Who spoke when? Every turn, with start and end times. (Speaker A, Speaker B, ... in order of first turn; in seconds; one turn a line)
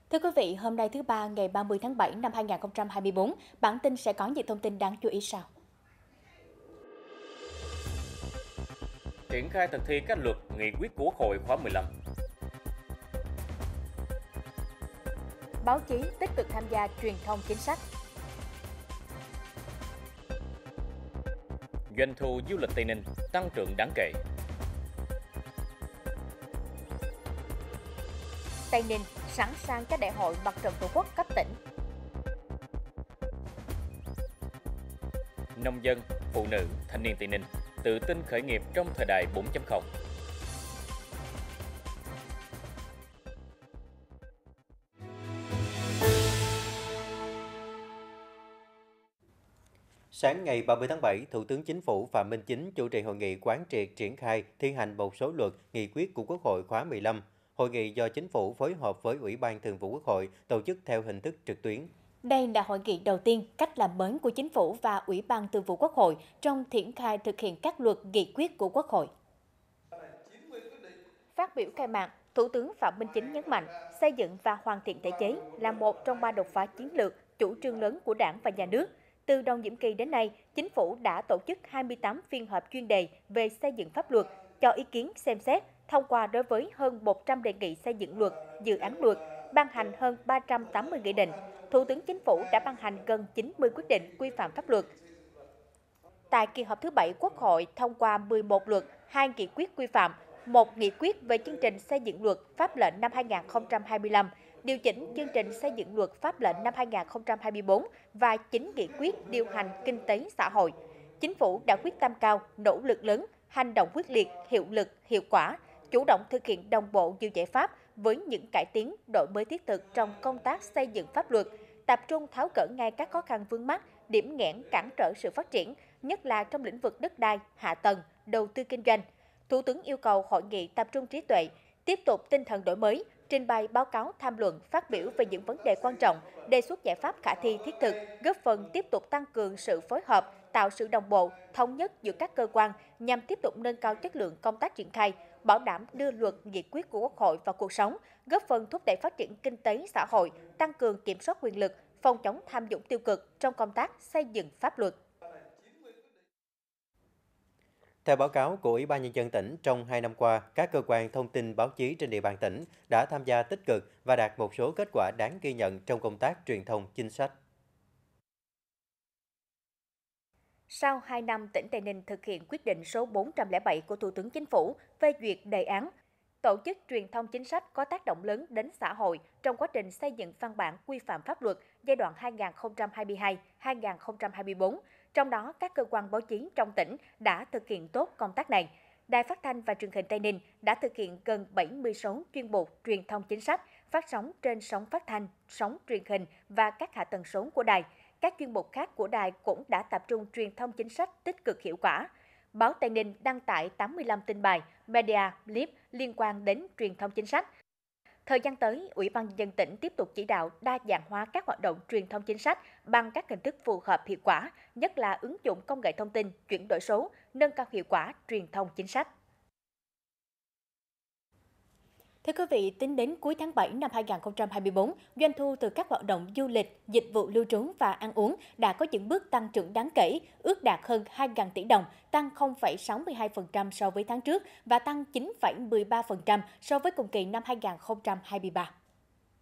Speaker A: 0.1-5.5
Speaker B: 9.3-11.9
Speaker A: 15.6-17.8
Speaker B: 21.9-24.2
Speaker A: 28.7-31.6
Speaker B: 35.5-39.9
Speaker C: 50.1-61.9
Speaker A: 62.2-69.1
Speaker A: 71.3-94.9
Speaker A: 96.3-155.0
Speaker C: 158.0-167.3
Speaker A: 170.7-175.9
Speaker A: 176.4-207.4
Speaker A: 208.2-219.1
Speaker A: 222.2-238.7